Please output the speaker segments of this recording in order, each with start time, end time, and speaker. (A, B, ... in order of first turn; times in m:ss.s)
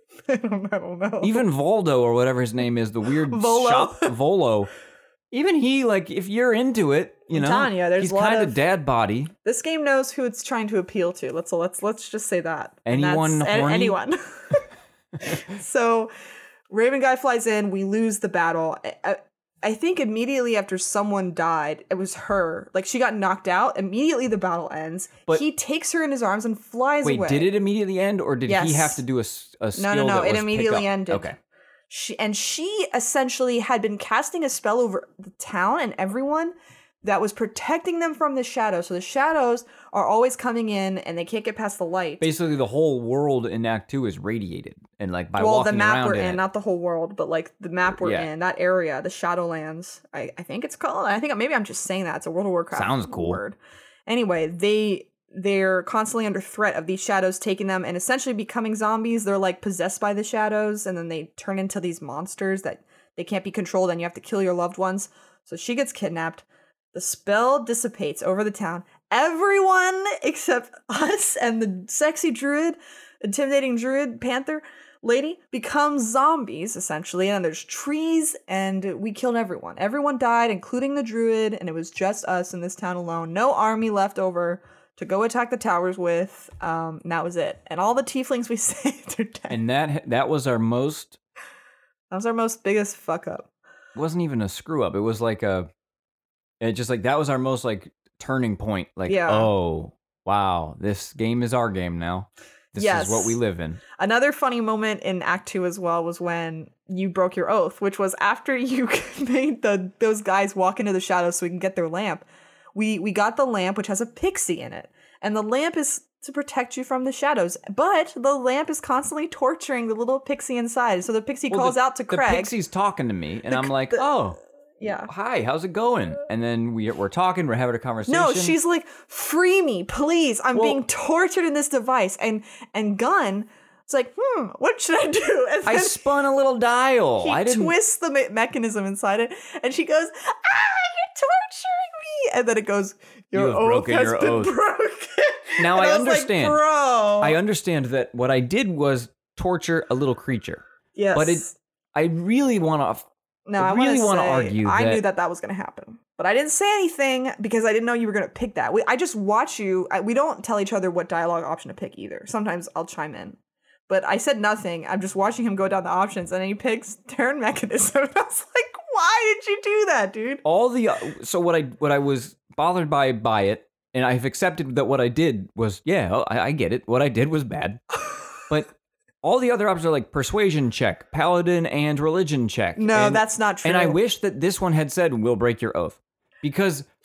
0:00.3-0:01.4 A
0:01.2-0:04.7 B
0:03.3-0:04.1 A
0:05.3-0:09.3 B
0:07.3-0:08.6 A
0:09.4-0:14.6 A
0:12.9-0:14.0 B
0:15.2-0:16.1 A
0:16.7-0:27.5 A
0:27.0-0:31.4 B
0:28.5-0:29.0 A
0:29.8-0:31.3 A
0:31.9-0:42.3 A
0:42.2-0:46.4 B
0:45.4-1:29.6 A
0:47.9-0:48.3 B
0:52.7-0:53.4 B
1:29.5-1:31.2 B
1:32.1-1:33.5 A
1:34.0-1:35.7 B
1:36.6-1:43.8 B
1:39.1-1:39.5 A
1:42.8-1:43.4 A
1:43.9-2:02.5 A
2:01.5-2:08.6 B
2:03.5-2:04.1 A
2:04.8-2:05.1 A
2:08.1-2:16.0 A
2:10.5-2:10.8 B
2:15.7-2:17.8 B
2:17.2-2:27.4 A
2:23.3-2:24.5 B
2:25.6-2:26.6 B
2:27.2-2:33.0 B
2:31.0-2:31.6 A
2:33.5-2:43.4 A
2:33.6-2:35.0 B
2:43.9-2:50.4 A
2:50.4-2:57.8 B
2:58.5-3:06.9 B
3:02.8-3:04.0 A